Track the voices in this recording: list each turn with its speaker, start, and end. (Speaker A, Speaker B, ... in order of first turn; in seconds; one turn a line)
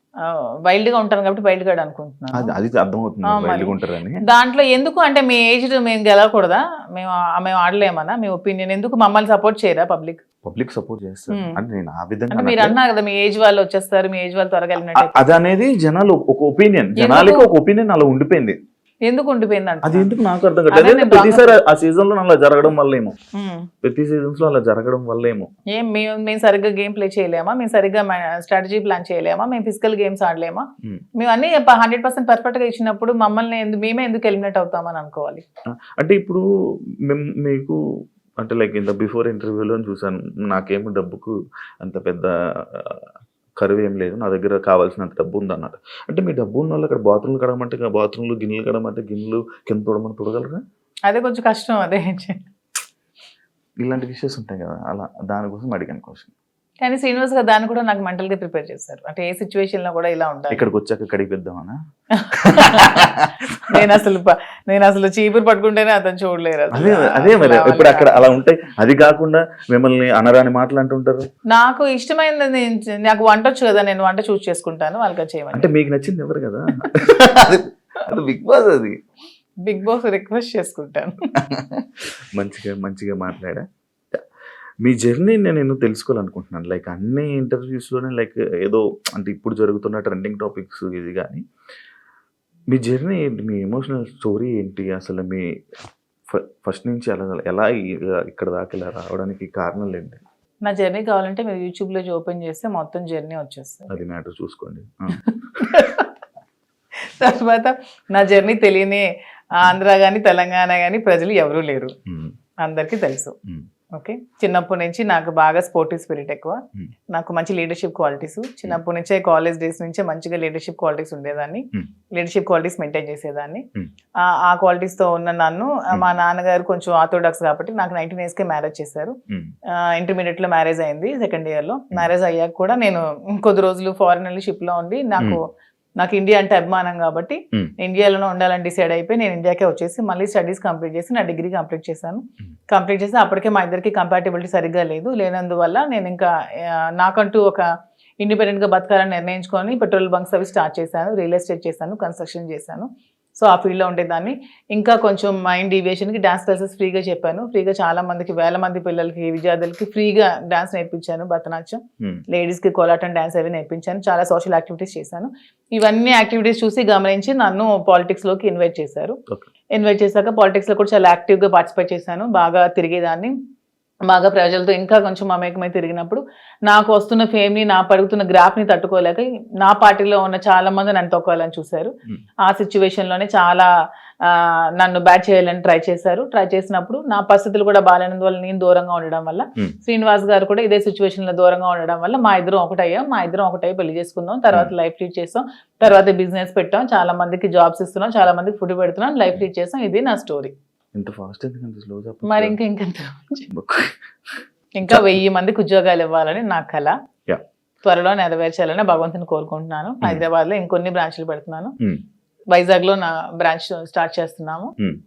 Speaker A: 0.2-2.6
Speaker B: 2.3-4.2
Speaker A: 3.2-10.2
Speaker B: 10.4-12.8
Speaker A: 11.3-11.6
Speaker A: 12.3-15.3
Speaker B: 14.9-18.6
Speaker A: 16.9-17.5
Speaker A: 19.0-21.6
Speaker B: 19.8-23.1
Speaker A: 23.3-23.7
Speaker B: 23.8-25.5
Speaker A: 25.7-30.6
Speaker A: 31.2-35.4
Speaker B: 36.0-36.4
Speaker B: 37.1-37.8
Speaker B: 38.4-43.0
Speaker B: 43.6-50.6
Speaker A: 51.1-52.4
Speaker B: 53.8-56.3
Speaker A: 56.8-60.7
Speaker B: 60.5-61.7
Speaker A: 62.1-63.1
Speaker B: 62.4-63.8
Speaker A: 63.6-68.3
Speaker B: 66.7-71.2
Speaker A: 71.5-75.7
Speaker B: 75.5-79.0
Speaker A: 79.6-81.2
Speaker B: 82.3-84.2
Speaker B: 84.8-91.4
Speaker B: 92.7-95.5
Speaker B: 96.3-100.2
Speaker A: 100.6-104.0
Speaker B: 103.9-105.2
Speaker A: 105.2-106.1
Speaker A: 107.1-112.0
Speaker B: 112.1-112.3
Speaker A: 112.6-113.3
Speaker A: 113.9-116.6
Speaker A: 117.1-123.6
Speaker A: 124.2-129.1
Speaker A: 129.9-135.4
Speaker A: 136.0-147.7
Speaker A: 148.2-169.1
Speaker A: 169.7-173.3
Speaker A: 174.1-181.9
Speaker A: 182.4-183.7
Speaker A: 184.2-200.5
Speaker B: 200.9-202.6
Speaker A: 202.2-203.5
Speaker B: 203.5-204.0
Speaker A: 204.8-206.9
Speaker B: 204.9-205.2
Speaker A: 207.8-211.7
Speaker A: 212.5-214.7